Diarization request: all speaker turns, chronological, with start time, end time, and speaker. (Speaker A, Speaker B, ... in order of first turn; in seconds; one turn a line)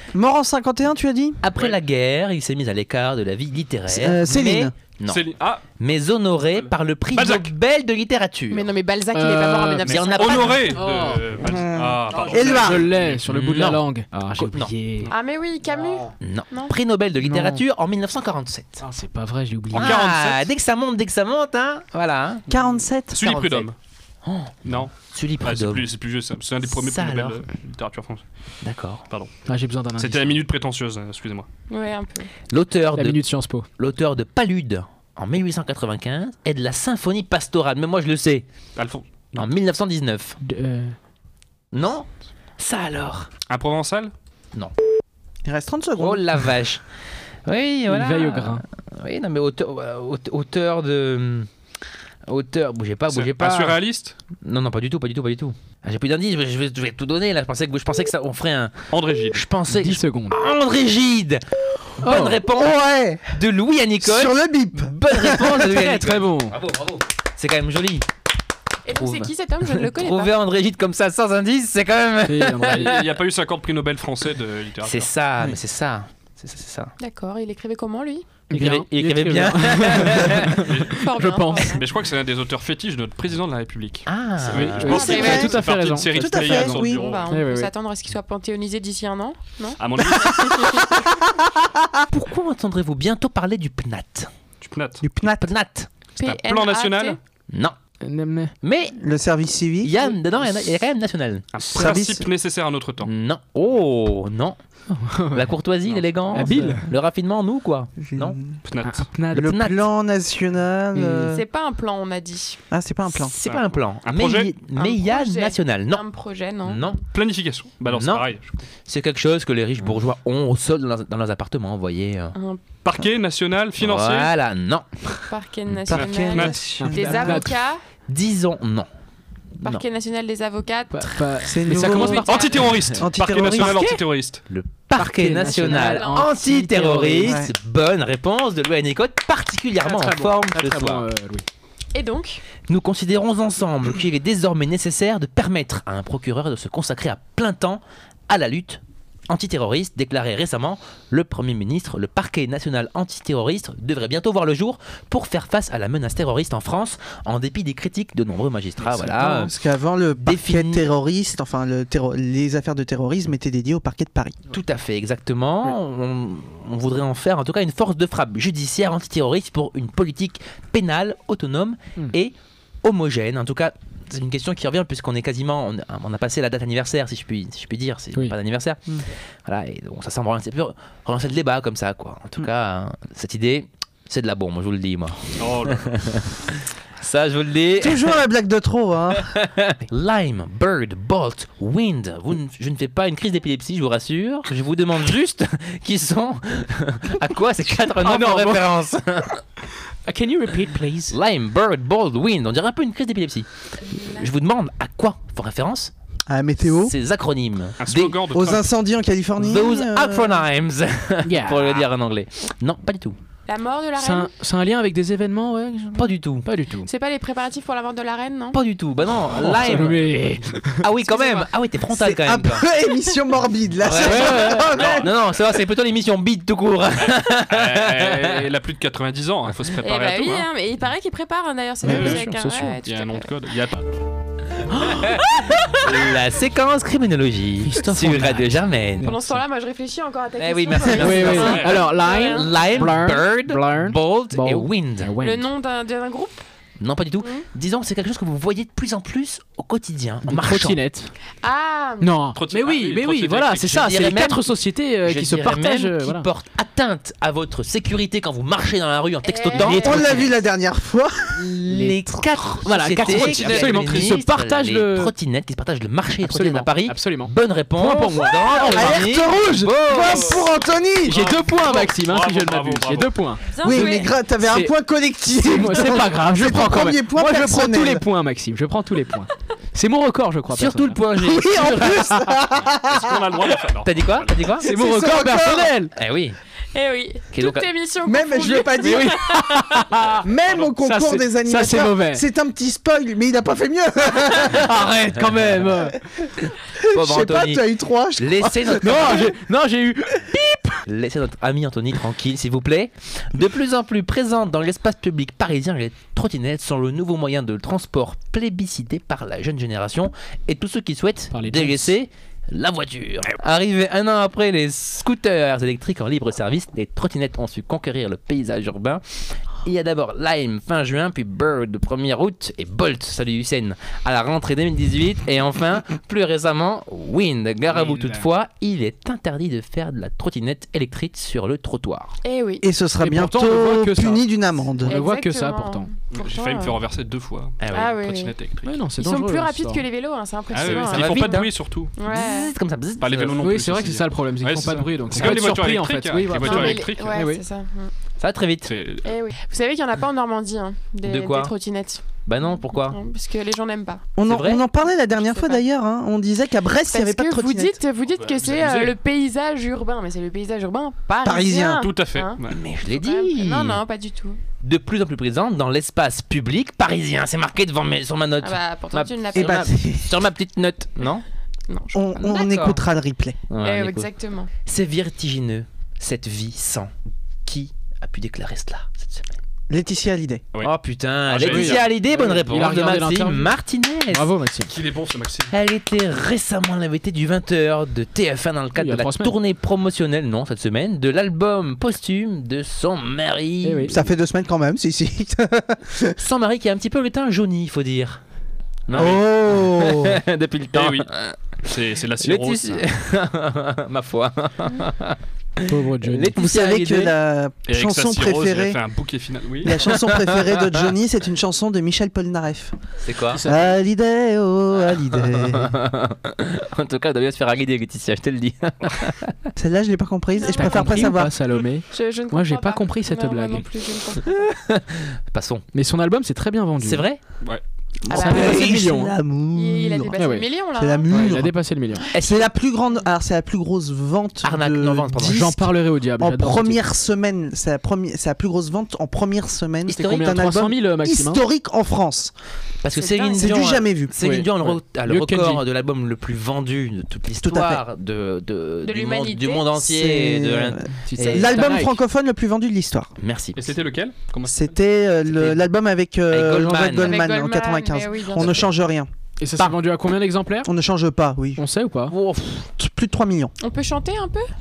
Speaker A: 0.1-1.4
Speaker B: 1.4-5.2
Speaker A: 3.9-4.7
Speaker C: 5.1-5.6
Speaker B: 5.8-8.7
Speaker C: 6.5-7.5
Speaker D: 8.5-10.8
Speaker E: 9.1-10.0
Speaker B: 9.9-10.7
Speaker C: 10.2-13.7
Speaker E: 10.7-11.5
Speaker A: 11.4-12.9
Speaker E: 12.4-15.1
Speaker B: 13.3-13.8
Speaker B: 14.4-14.7
Speaker D: 15.1-16.7
Speaker B: 16.2-18.9
Speaker E: 17.2-17.6
Speaker E: 18.8-20.1
Speaker B: 19.7-22.5
Speaker C: 19.8-20.5
Speaker A: 22.5-23.3
Speaker C: 23.1-23.8
Speaker B: 23.2-23.7
Speaker B: 24.2-25.9
Speaker C: 24.7-28.2
Speaker B: 26.7-27.4
Speaker B: 28.6-29.1
Speaker E: 29.5-30.4
Speaker C: 30.0-31.5
Speaker D: 31.7-32.3
Speaker B: 32.5-33.2
Speaker E: 33.0-33.7
Speaker B: 33.8-38.5
Speaker C: 38.8-39.5
Speaker B: 39.4-40.4
Speaker E: 40.4-41.0
Speaker B: 41.7-43.3
Speaker C: 43.5-44.1
Speaker A: 45.5-46.2
Speaker B: 46.0-46.8
Speaker B: 47.5-51.5
Speaker E: 47.9-48.6
Speaker B: 52.3-53.8
Speaker C: 53.1-54.1
Speaker B: 54.4-62.8
Speaker C: 58.9-59.4
Speaker E: 59.7-60.4
Speaker E: 62.0-62.4
Speaker A: 62.4-63.4
Speaker B: 63.3-68.1
Speaker A: 64.0-65.7
Speaker E: 65.6-66.6
Speaker D: 68.9-70.3
Speaker B: 68.9-73.1
Speaker E: 72.3-73.0
Speaker C: 72.6-75.1
Speaker B: 74.8-76.9
Speaker D: 77.0-78.3
Speaker E: 78.5-81.8
Speaker B: 78.5-80.7
Speaker C: 80.3-87.3
Speaker D: 80.9-81.9
Speaker B: 84.1-85.3
Speaker E: 84.5-87.7
Speaker D: 84.8-85.7
Speaker A: 84.9-87.0
Speaker D: 86.8-91.1
Speaker C: 89.8-90.6
Speaker A: 91.2-92.0
Speaker B: 92.1-94.3
Speaker C: 94.6-95.0
Speaker A: 95.0-95.5
Speaker B: 95.3-95.9
Speaker D: 96.2-97.2
Speaker C: 96.2-97.2
Speaker B: 97.5-97.8
Speaker E: 98.0-98.5
Speaker B: 98.6-99.0
Speaker A: 99.0-100.0
Speaker B: 99.8-101.9
Speaker C: 101.5-103.1
Speaker A: 101.7-102.3
Speaker B: 103.0-104.6
Speaker E: 104.9-105.5
Speaker B: 105.3-108.4
Speaker E: 106.3-106.9
Speaker A: 106.4-106.8
Speaker A: 108.0-108.5
Speaker C: 108.7-109.0
Speaker E: 108.8-109.8
Speaker A: 109.3-111.4
Speaker E: 110.9-111.4
Speaker D: 111.3-112.6
Speaker A: 112.7-113.3
Speaker B: 113.1-116.0
Speaker C: 113.5-114.5
Speaker D: 114.8-117.0
Speaker B: 116.7-117.0
Speaker C: 117.1-118.5
Speaker B: 117.9-118.3
Speaker B: 118.9-122.3
Speaker D: 122.3-122.6
Speaker C: 122.8-124.3
Speaker B: 123.8-125.3
Speaker D: 125.3-127.8
Speaker A: 125.9-127.5
Speaker C: 125.9-126.6
Speaker E: 126.8-127.5
Speaker B: 128.1-128.9
Speaker B: 129.6-129.8
Speaker D: 129.6-131.3
Speaker E: 130.9-132.5
Speaker A: 131.4-132.3
Speaker C: 131.8-134.4
Speaker D: 131.8-132.7
Speaker B: 132.4-141.1
Speaker A: 132.9-133.9
Speaker E: 135.0-137.4
Speaker D: 135.5-136.3
Speaker A: 137.2-137.5
Speaker E: 139.8-141.5
Speaker D: 141.9-142.4
Speaker B: 142.7-159.5
Speaker A: 158.9-164.4
Speaker E: 159.0-159.3
Speaker B: 160.2-160.9
Speaker B: 164.5-188.2
Speaker C: 185.4-186.0
Speaker A: 187.8-189.3
Speaker B: 189.2-199.4
Speaker E: 198.0-198.8
Speaker E: 200.1-201.2
Speaker B: 201.1-205.9
Speaker D: 203.9-204.3
Speaker A: 206.3-207.0
Speaker B: 206.7-208.2
Speaker C: 207.8-208.7
Speaker A: 208.3-210.4
Speaker B: 209.4-213.2
Speaker E: 211.2-211.8
Speaker D: 213.5-214.3
Speaker E: 214.0-216.9
Speaker B: 216.0-216.5
Speaker D: 216.8-218.6
Speaker B: 218.5-222.7
Speaker E: 219.3-220.9
Speaker D: 221.1-221.5
Speaker A: 221.9-225.2
Speaker B: 223.8-228.4
Speaker E: 223.9-224.8
Speaker C: 224.7-225.1
Speaker C: 227.0-230.5
Speaker D: 229.8-233.3
Speaker E: 231.8-232.8
Speaker C: 231.8-232.3
Speaker C: 232.8-233.9
Speaker E: 234.8-235.2
Speaker B: 234.9-239.1
Speaker E: 237.6-239.4
Speaker D: 239.0-242.9
Speaker B: 240.4-245.1
Speaker E: 240.9-245.5
Speaker C: 241.2-241.8
Speaker D: 245.2-246.4
Speaker B: 246.8-250.8
Speaker D: 247.2-247.5
Speaker E: 250.3-251.1
Speaker D: 251.4-252.1
Speaker E: 252.0-256.3
Speaker C: 252.3-253.6
Speaker B: 253.6-254.5
Speaker B: 255.0-260.4
Speaker D: 259.2-260.3
Speaker A: 259.5-261.6
Speaker B: 261.3-270.6
Speaker E: 261.7-262.0
Speaker E: 262.5-265.1
Speaker A: 263.0-263.3
Speaker E: 266.2-269.0
Speaker A: 268.5-271.2
Speaker E: 271.0-273.6
Speaker C: 271.1-273.1
Speaker D: 273.4-274.2
Speaker A: 273.6-278.1
Speaker E: 274.4-274.7
Speaker E: 275.4-281.0
Speaker B: 280.5-282.4
Speaker A: 281.2-283.5
Speaker C: 282.8-284.5
Speaker B: 283.8-284.7
Speaker A: 284.6-285.7
Speaker E: 284.6-285.9
Speaker B: 285.9-286.4
Speaker D: 286.7-289.9
Speaker B: 287.3-287.7
Speaker A: 288.1-289.2
Speaker E: 288.8-292.2
Speaker A: 290.2-294.7
Speaker C: 290.4-290.7
Speaker E: 294.5-296.0
Speaker B: 295.1-295.7
Speaker A: 296.2-299.3
Speaker B: 296.9-299.3
Speaker E: 298.8-300.8
Speaker B: 300.8-332.2
Speaker E: 311.3-311.9
Speaker E: 327.7-328.3
Speaker D: 332.2-332.6
Speaker A: 332.6-335.0
Speaker E: 333.0-334.2
Speaker E: 334.8-335.9
Speaker D: 334.9-336.8
Speaker C: 336.1-338.7
Speaker B: 337.6-338.2
Speaker D: 337.7-338.3
Speaker E: 338.6-339.9
Speaker D: 339.0-342.5
Speaker C: 340.5-341.9
Speaker B: 340.6-341.5
Speaker B: 342.0-343.5
Speaker C: 343.0-347.2
Speaker E: 343.4-347.4
Speaker D: 346.4-347.9
Speaker B: 348.2-348.7
Speaker C: 348.7-349.1
Speaker D: 349.0-354.0
Speaker B: 351.0-351.5
Speaker B: 352.2-353.0
Speaker A: 354.2-357.8
Speaker B: 354.2-354.6
Speaker D: 355.1-355.6
Speaker D: 356.9-364.4
Speaker C: 358.1-358.9
Speaker A: 361.2-361.8
Speaker C: 361.8-362.6
Speaker B: 362.5-363.8
Speaker B: 364.6-371.2
Speaker D: 368.4-369.8
Speaker A: 369.3-370.3
Speaker D: 371.7-372.0
Speaker A: 371.9-373.4
Speaker B: 372.2-372.8
Speaker B: 373.5-374.1
Speaker D: 373.6-374.5
Speaker B: 374.7-376.9
Speaker B: 377.4-379.4
Speaker A: 379.7-380.4
Speaker B: 380.6-384.3
Speaker C: 381.3-381.9
Speaker E: 381.4-383.6
Speaker E: 384.1-384.7
Speaker C: 384.7-385.5
Speaker B: 385.5-394.0
Speaker E: 388.8-389.4
Speaker E: 393.6-394.0
Speaker A: 393.9-396.2
Speaker B: 396.2-398.2
Speaker B: 398.9-401.4
Speaker A: 398.9-400.2
Speaker C: 398.9-399.2
Speaker C: 400.7-401.1
Speaker C: 401.6-402.9
Speaker B: 402.2-407.1
Speaker E: 405.7-406.4
Speaker A: 406.3-408.8
Speaker C: 407.7-410.0
Speaker A: 409.6-412.8
Speaker B: 409.9-410.9
Speaker B: 413.0-413.4
Speaker E: 413.3-413.8
Speaker A: 413.4-415.8
Speaker B: 414.8-419.5
Speaker A: 419.6-421.4
Speaker D: 420.4-421.0
Speaker E: 420.5-423.7
Speaker D: 421.9-424.5
Speaker B: 424.2-425.7
Speaker E: 425.7-427.1
Speaker B: 426.8-427.2
Speaker A: 428.1-430.2
Speaker D: 428.1-428.8
Speaker E: 428.1-429.2
Speaker D: 429.5-431.3
Speaker E: 430.2-430.5
Speaker A: 430.8-431.6
Speaker E: 431.1-432.1
Speaker B: 432.1-432.5
Speaker A: 432.1-435.6
Speaker B: 434.4-435.6
Speaker E: 435.2-436.8
Speaker A: 436.2-442.3
Speaker B: 439.9-440.3
Speaker E: 439.9-441.4
Speaker B: 442.8-451.7
Speaker D: 442.9-443.7
Speaker A: 443.3-444.4
Speaker E: 444.2-445.6
Speaker A: 447.4-447.8
Speaker D: 448.8-449.7
Speaker A: 449.8-453.1
Speaker E: 451.0-452.0
Speaker B: 453.2-453.7
Speaker C: 453.6-454.6
Speaker A: 454.5-459.1
Speaker B: 455.3-455.6
Speaker B: 456.3-457.2
Speaker D: 457.0-458.6
Speaker B: 458.4-458.7
Speaker E: 459.4-460.7
Speaker A: 460.7-461.6
Speaker E: 461.6-462.1
Speaker B: 462.1-462.7
Speaker A: 462.7-463.6
Speaker D: 463.6-464.5